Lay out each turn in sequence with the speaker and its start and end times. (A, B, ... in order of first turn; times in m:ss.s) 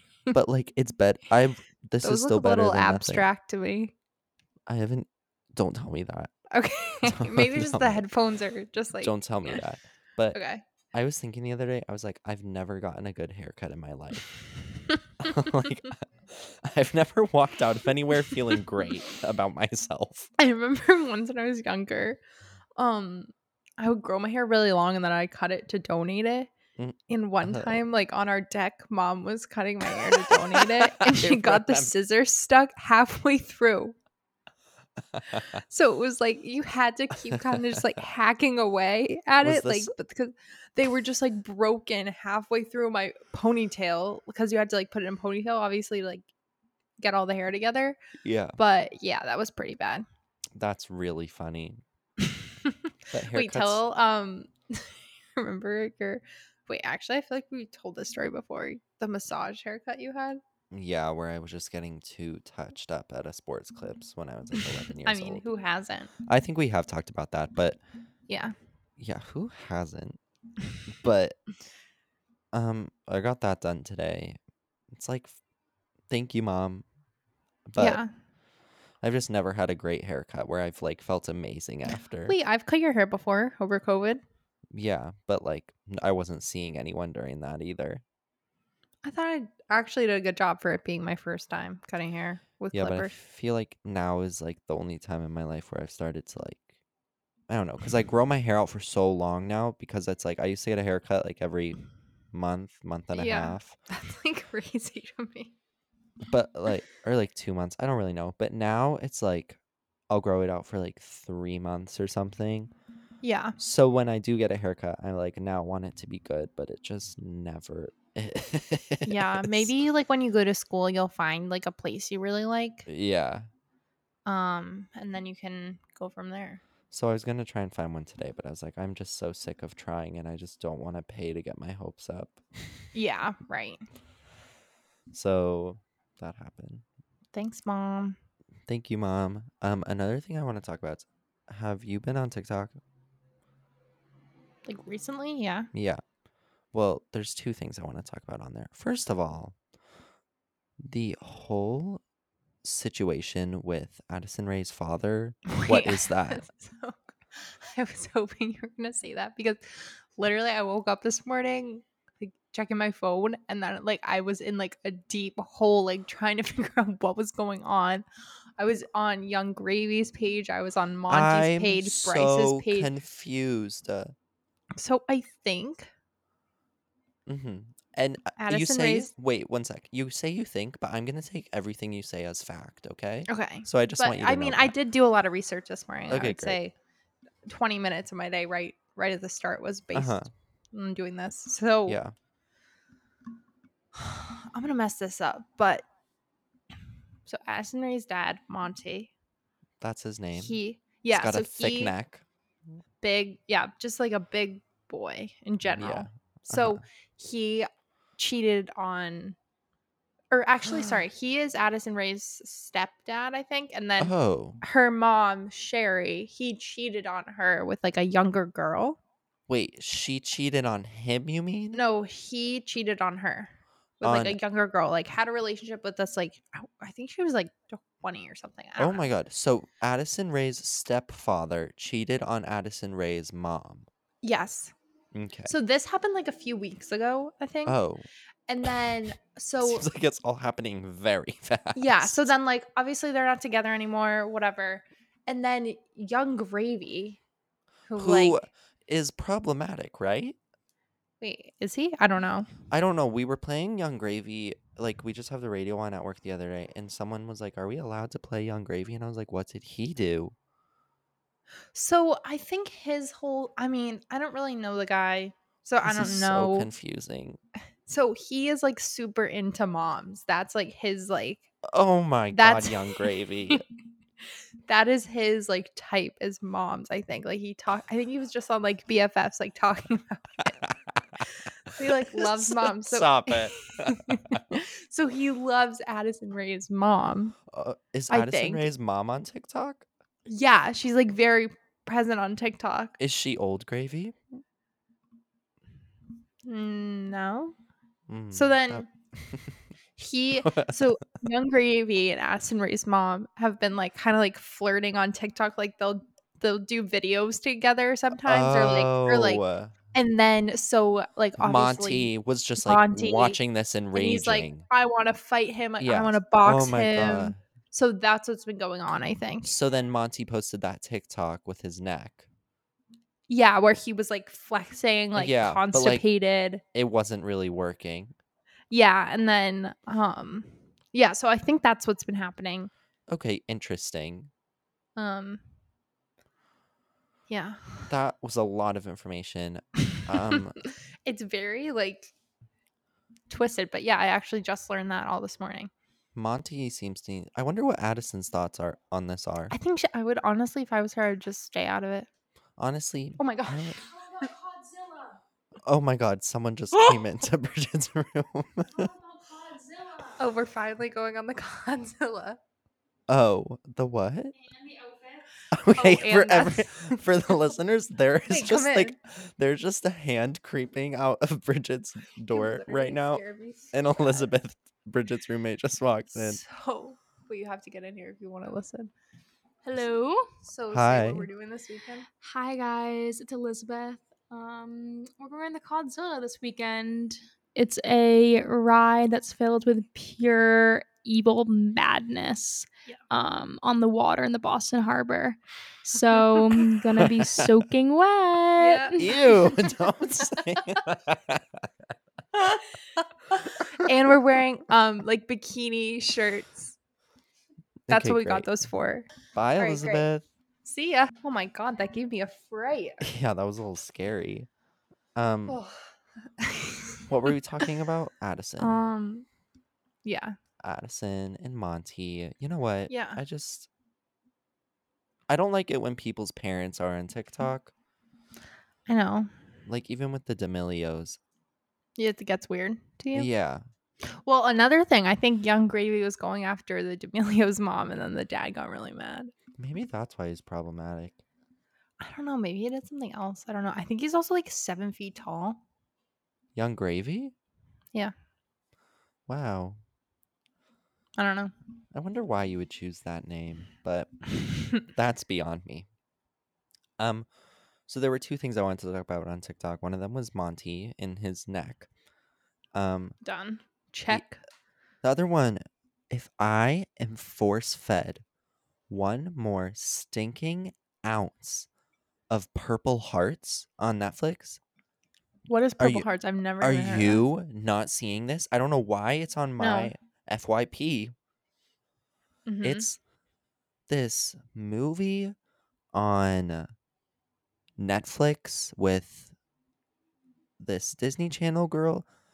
0:00.3-0:03.3 A
0:02.0-0:03.9 B
0:04.7-0:06.3 A
0:06.5-0:09.6 B
0:07.0-0:08.0 A
0:09.0-0:10.4 A
0:10.3-0:10.6 B
0:10.9-0:14.3 A
0:15.2-0:20.3 A
0:20.4-0:22.2 B
0:22.8-0:26.5 B
0:26.8-0:27.8 A
0:27.1-0:34.0 B
0:30.1-0:31.9 A
0:35.1-0:35.6 A
0:35.4-0:46.3 B
0:37.3-0:38.0 A
0:39.4-0:39.9 A
0:47.0-0:48.0 B
0:48.2-0:48.6 A
0:48.6-0:50.0 B
0:50.6-0:51.8 A
0:52.6-1:00.4 B
0:53.1-0:53.8 A
1:00.7-1:05.5 A
1:05.0-1:06.1 B
1:06.3-1:07.8 A
1:08.3-1:08.6 B
1:09.0-1:10.2 A
1:10.9-1:11.4 A
1:12.5-1:14.4 A
1:14.9-1:15.4 A
1:16.1-1:16.8 A
1:17.7-1:18.0 A
1:17.8-1:18.1 B
1:19.0-1:22.4 A
1:22.3-1:24.2 B
1:24.7-1:28.0 A
1:29.0-1:33.1 B
1:32.7-1:36.7 A
1:37.5-1:41.8 A
1:42.3-1:43.8 A
1:43.1-1:45.5 B
1:46.3-1:49.6 A
1:50.1-1:52.7 A
1:53.2-1:53.6 B
1:53.6-1:59.7 A
1:59.0-2:02.9 B
2:02.9-2:03.5 A
2:04.3-2:06.6 B
2:06.9-2:12.8 A
2:12.9-2:13.8 B
2:15.1-2:16.8 A
2:17.3-2:18.2 B
2:18.7-2:22.8 A
2:24.7-2:25.7 B
2:25.7-2:26.0 A
2:26.7-2:29.6 A
2:30.8-2:32.0 A
2:32.6-2:36.5 A
2:35.5-2:48.0 B
2:48.6-2:52.9 B
2:51.1-2:54.1 A
2:54.8-2:55.9 B
2:57.3-3:04.7 A
2:58.4-2:59.1 B
3:03.3-3:06.7 B
3:06.1-3:06.6 A
3:07.5-3:10.2 B
3:09.9-3:10.3 A
3:10.7-3:12.0 B
3:11.9-3:12.1 A
3:14.0-3:15.8 B
3:17.3-3:19.1 B
3:19.8-3:20.6 A
3:20.3-3:21.9 B
3:21.1-3:22.2 A
3:23.0-3:29.4 B
3:25.7-3:26.8 A
3:30.3-3:39.0 B
3:30.7-3:31.0 A
3:34.0-3:34.6 A
3:39.5-3:41.8 A
3:41.7-3:49.1 B
3:44.0-3:44.4 A
3:48.8-3:53.9 A
3:54.2-3:54.7 B
3:55.1-3:55.5 A
3:55.5-3:57.8 B
3:57.7-3:58.1 A
3:58.5-3:59.9 B
3:59.6-4:02.3 A
4:01.8-4:07.2 B
4:07.9-4:08.4 B
4:08.0-4:10.4 A
4:11.2-4:12.5 B
4:12.7-4:20.4 A
4:21.7-4:26.7 B
4:25.8-4:27.4 A
4:27.9-4:31.5 B
4:31.7-4:33.6 A
4:32.3-4:33.6 B
4:34.7-4:40.6 B
4:40.6-4:41.2 A
4:41.3-4:47.4 B
4:41.8-4:44.4 A
4:47.5-4:49.9 A
4:48.1-4:48.6 B
4:50.3-4:53.0 B
4:53.0-4:54.2 A
4:56.4-4:57.6 B
4:58.1-4:59.6 A
4:58.3-4:58.9 B
5:00.0-5:09.4 B
5:00.4-5:01.0 A
5:08.2-5:09.8 A
5:09.9-5:13.4 B
5:11.4-5:14.6 A
5:13.9-5:19.5 B
5:15.8-5:17.4 A
5:19.4-5:22.3 A
5:23.3-5:26.6 B
5:25.2-5:26.0 A
5:26.7-5:28.1 A
5:28.7-5:32.7 B
5:33.1-5:34.3 A
5:35.0-5:35.4 B
5:37.3-5:37.9 B
5:37.9-5:40.6 A
5:41.1-5:42.1 B
5:43.3-5:45.7 B
5:46.2-5:49.5 A
5:49.5-5:52.1 B
5:52.6-5:53.8 A
5:53.2-5:54.3 B
5:54.2-5:55.0 C
5:55.6-5:58.9 A
5:59.0-6:00.0 C
6:00.0-6:02.4 B
6:03.1-6:04.3 A
6:05.0-6:07.0 B
6:05.5-6:16.4 A
6:08.3-6:09.0 B
6:12.3-6:14.3 B
6:16.1-6:18.9 B
6:19.6-6:20.3 C
6:20.4-6:22.2 B
6:20.7-6:21.3 A
6:22.2-6:39.1 C
6:25.3-6:25.9 B
6:36.0-6:37.4 B
6:36.9-6:37.5 A
6:38.6-6:39.4 B
6:39.0-6:41.7 A
6:42.4-6:42.6 A
6:42.4-6:46.8 B
6:43.6-6:43.9 A
6:47.9-6:48.5 A
6:47.9-6:50.1 B
6:49.3-6:50.2 A
6:50.6-6:53.1 B
6:53.0-6:54.5 A
6:55.2-6:55.6 A
6:55.5-6:55.8 B
6:56.4-6:57.0 B
6:57.1-6:58.8 A
6:58.6-6:59.3 B
7:00.0-7:00.4 B
7:00.6-7:03.7 A
7:02.9-7:03.2 B
7:05.3-7:07.7 A
7:08.9-7:09.3 B
7:09.7-7:11.2 A
7:12.0-7:13.3 B
7:13.1-7:13.6 A
7:14.1-7:19.3 B
7:19.6-7:21.2 A
7:22.0-7:25.6 B
7:26.6-7:27.3 A
7:29.3-7:29.8 A
7:31.2-7:31.5 B
7:31.9-7:34.1 A
7:34.9-7:35.9 A
7:37.0-7:37.3 A
7:37.9-7:41.9 A
7:42.7-7:43.2 A
7:43.2-7:44.4 B
7:45.0-7:48.2 A
7:48.9-7:51.7 A
7:52.3-7:54.6 A
7:55.5-7:57.2 B
7:55.8-7:56.1 A
7:56.6-8:01.1 A
7:59.6-7:59.9 B
8:02.5-8:02.9 B
8:02.6-8:03.0 A
8:03.9-8:05.4 A
8:05.9-8:06.7 A
8:07.8-8:09.3 A
8:10.6-8:12.1 A